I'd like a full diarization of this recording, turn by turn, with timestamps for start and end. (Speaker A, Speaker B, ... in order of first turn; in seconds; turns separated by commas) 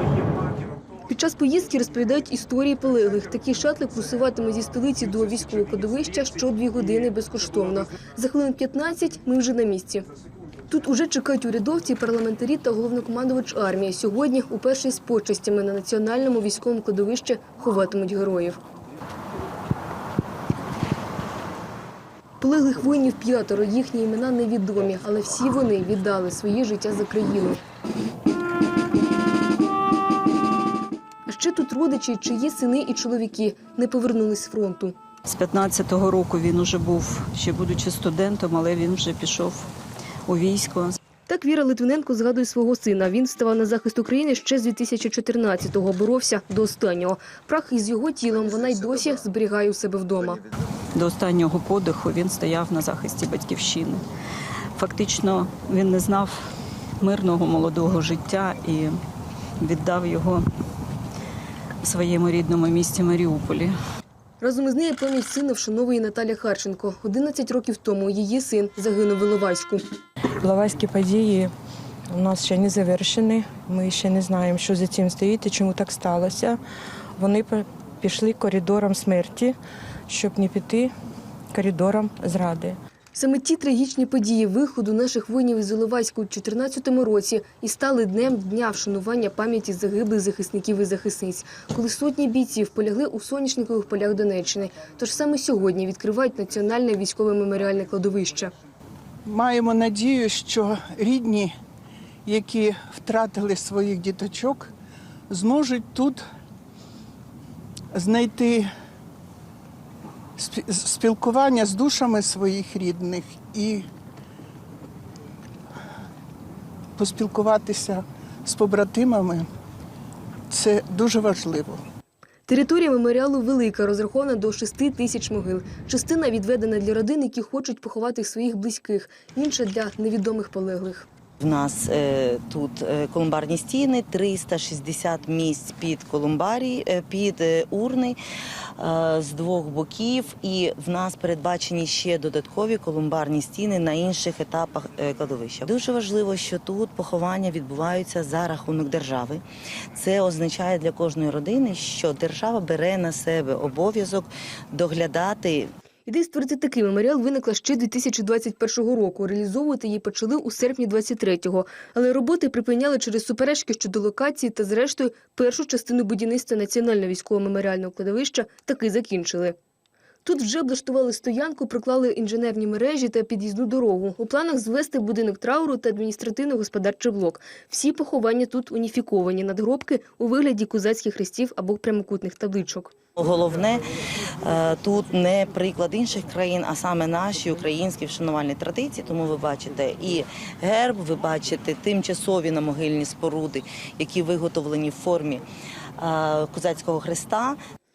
Speaker A: 1.1-10.1, Speaker A: 10.7-18.6, Speaker A: 22.4-27.6, Speaker A: 31.3-34.9, Speaker B: 35.3-39.7, Speaker B: 40.3-41.0, Speaker A: 41.3-50.4, Speaker B: 50.9-54.0, Speaker B: 54.8-59.0, Speaker B: 59.6-60.5, Speaker B: 61.8-63.7, Speaker A: 64.4-69.8, Speaker C: 70.4-71.5, Speaker C: 72.1-76.6, Speaker C: 77.2-79.5, Speaker C: 80.1-80.9, Speaker C: 81.5-82.8, Speaker A: 83.1-98.5, Speaker D: 99.2-101.5, Speaker D: 102.2-104.7, Speaker D: 105.3-106.2, Speaker D: 107.9-108.7, Speaker D: 110.4-113.8, Speaker D: 117.0-119.5, Speaker D: 120.5-121.8, Speaker A: 122.5-131.1, Speaker E: 131.4-138.2, Speaker E: 138.8-155.7, Speaker A: 156.1-169.6, Speaker A: 170.2-182.9, Speaker E: 183.2-195.4, Speaker E: 196.0-197.6